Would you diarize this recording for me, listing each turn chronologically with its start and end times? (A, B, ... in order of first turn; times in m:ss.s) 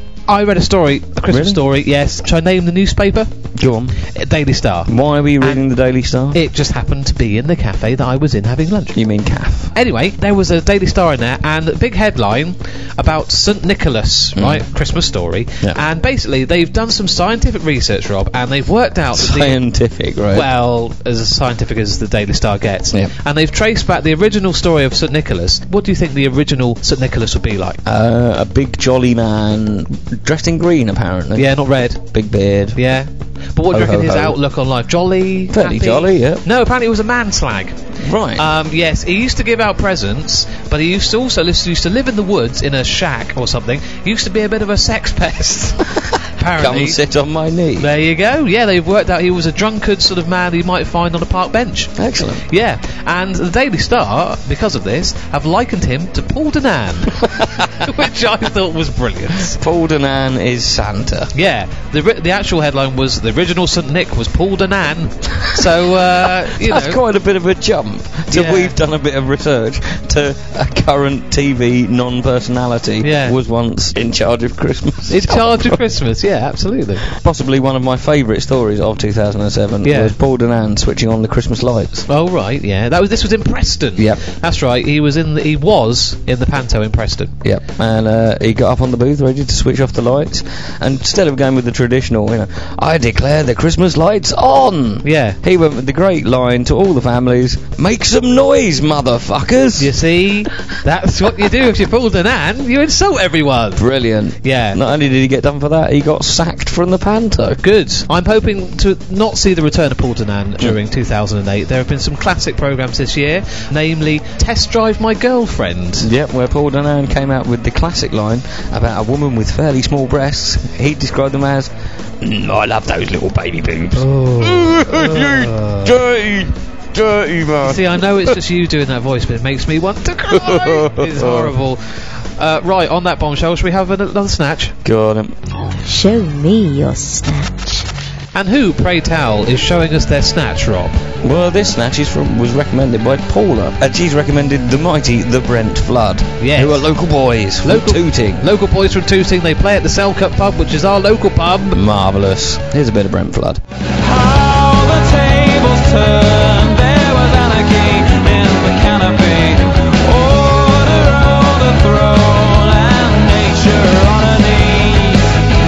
0:00.3-0:03.3 A
0:01.3-0:01.6 B
0:03.5-0:04.0 B
0:04.0-0:05.6 A
0:04.9-0:06.4 B
0:06.3-0:09.0 A
0:08.9-0:09.7 B
0:09.7-0:19.6 A
0:14.4-0:14.6 B
0:19.1-0:20.5 B
0:20.3-0:27.8 A
0:27.8-0:32.8 B
0:31.3-0:32.0 A
0:32.7-0:47.0 A
0:33.7-0:34.4 B
0:35.5-0:36.4 B
0:38.0-0:38.4 B
0:46.5-0:47.9 B
0:47.8-0:51.9 A
0:52.0-0:52.4 B
0:52.5-0:59.6 A
0:57.4-0:57.9 B
0:59.5-1:01.3 B
1:01.3-1:07.0 A
1:06.5-1:15.8 B
1:08.3-1:08.7 A
1:13.0-1:13.4 A
1:15.1-1:17.0 A
1:17.0-1:22.0 B
1:19.8-1:20.1 A
1:22.1-1:27.3 A
1:24.0-1:24.2 B
1:27.4-1:40.0 B
1:35.0-1:35.4 A
1:39.8-1:43.8 A
1:43.8-1:47.6 B
1:44.4-1:44.8 A
1:47.6-1:56.1 A
1:56.0-2:08.4 B
2:03.9-2:05.9 A
2:07.6-2:14.8 A
2:10.3-2:11.6 B
2:14.8-2:15.4 B
2:15.8-2:17.9 C
2:18.3-2:21.0 A
2:21.2-2:28.5 B
2:26.4-2:26.9 A
2:27.6-2:31.8 A
2:31.7-2:33.6 B
2:34.0-2:45.3 D